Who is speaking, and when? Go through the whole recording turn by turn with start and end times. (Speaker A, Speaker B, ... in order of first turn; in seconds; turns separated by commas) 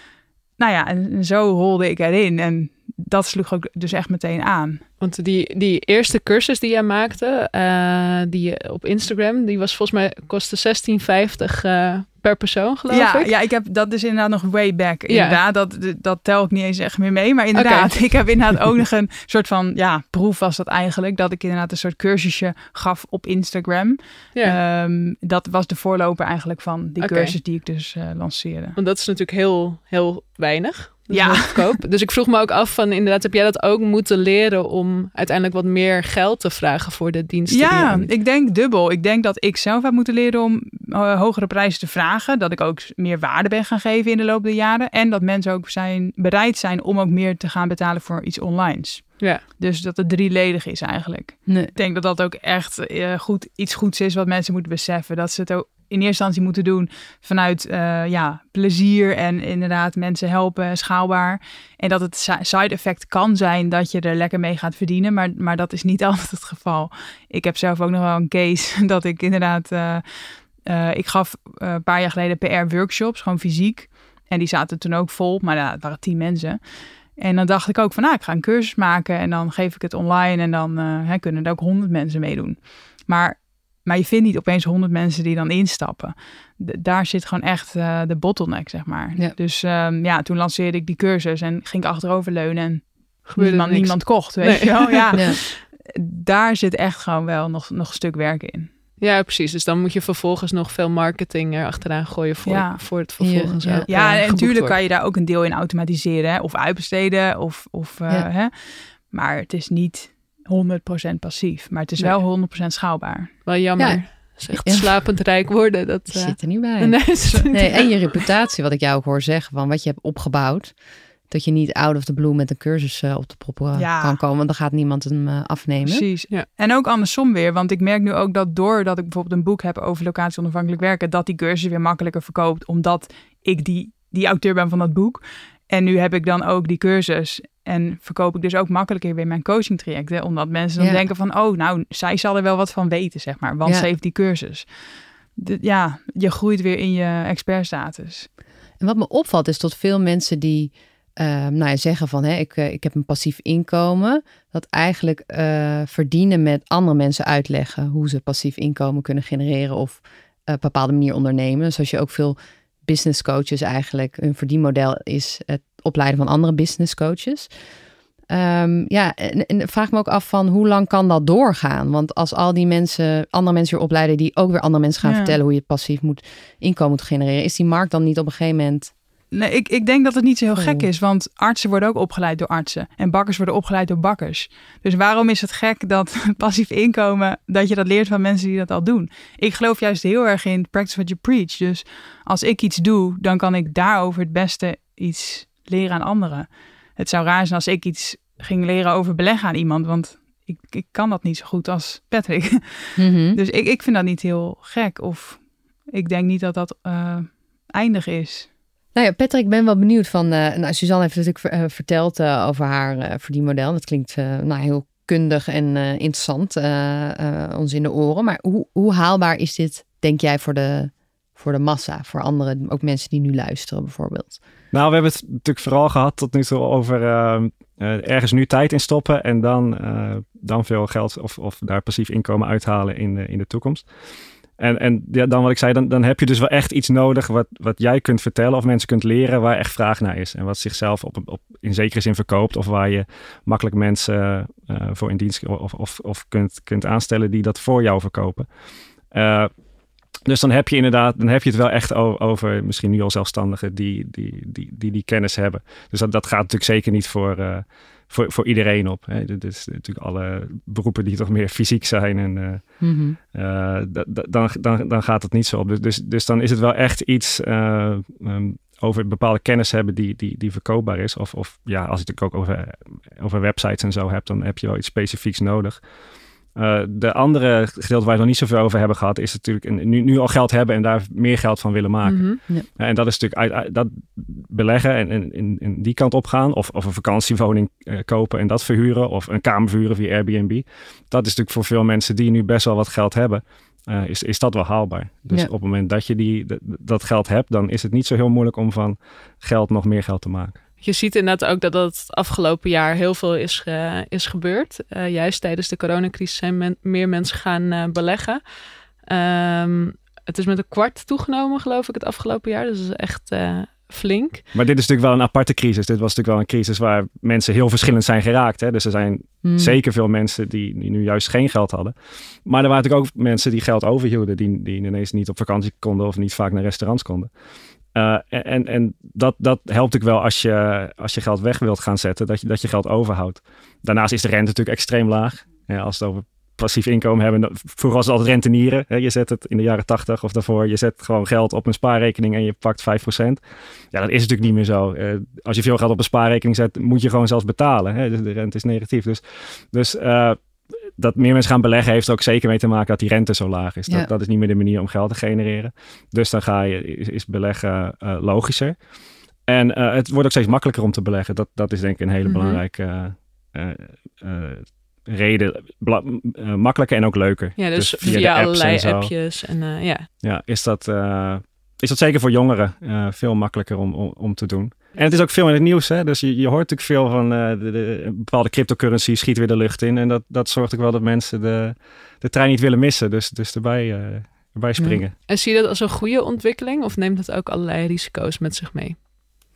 Speaker A: 0.6-4.8, Speaker B: 5.0-13.3, Speaker A: 12.9-28.8, Speaker B: 15.1-15.4, Speaker B: 17.6-18.2, Speaker B: 27.0-27.4, Speaker B: 28.8-38.1, Speaker A: 31.1-31.6, Speaker A: 37.5-70.0, Speaker A: 70.7-76.6, Speaker A: 77.2-98.7, Speaker B: 93.3-95.2, Speaker B: 99.0-104.8, Speaker A: 102.5-102.8, Speaker C: 103.2-103.9, Speaker A: 103.9-108.5, Speaker A: 109.1-113.3, Speaker B: 113.5-118.2, Speaker C: 113.8-114.9, Speaker C: 116.1-120.7, Speaker A: 117.3-117.8, Speaker C: 121.3-126.1, Speaker A: 123.8-124.2, Speaker A: 125.8-144.7, Speaker C: 140.8-141.0, Speaker A: 145.4-148.3, Speaker C: 148.8-167.5, Speaker C: 168.3-178.9, Speaker A: 175.0-175.3, Speaker A: 179.3-208.5, Speaker C: 180.6-180.9, Speaker C: 203.0-203.4, Speaker C: 208.9-224.4, Speaker D: 224.7-233.8, Speaker D: 234.6-248.5, Speaker D: 249.1-249.5, Speaker D: 250.3-262.8, Speaker C: 262.8-263.2, Speaker D: 263.3-275.8, Speaker D: 276.6-300.6, Speaker B: 282.0-282.4, Speaker B: 300.8-308.4, Speaker B: 309.1-314.4, Speaker D: 314.5-321.9, Speaker C: 319.4-319.8, Speaker D: 322.5-327.3, Speaker D: 327.9-343.4, Speaker D: 343.9-349.2, Speaker D: 349.7-350.4, Speaker D: 351.0-358.8, Speaker D: 359.5-369.1, Speaker B: 362.3-362.6, Speaker B: 367.6-370.1, Speaker D: 370.2-385.1, Speaker B: 385.3-389.0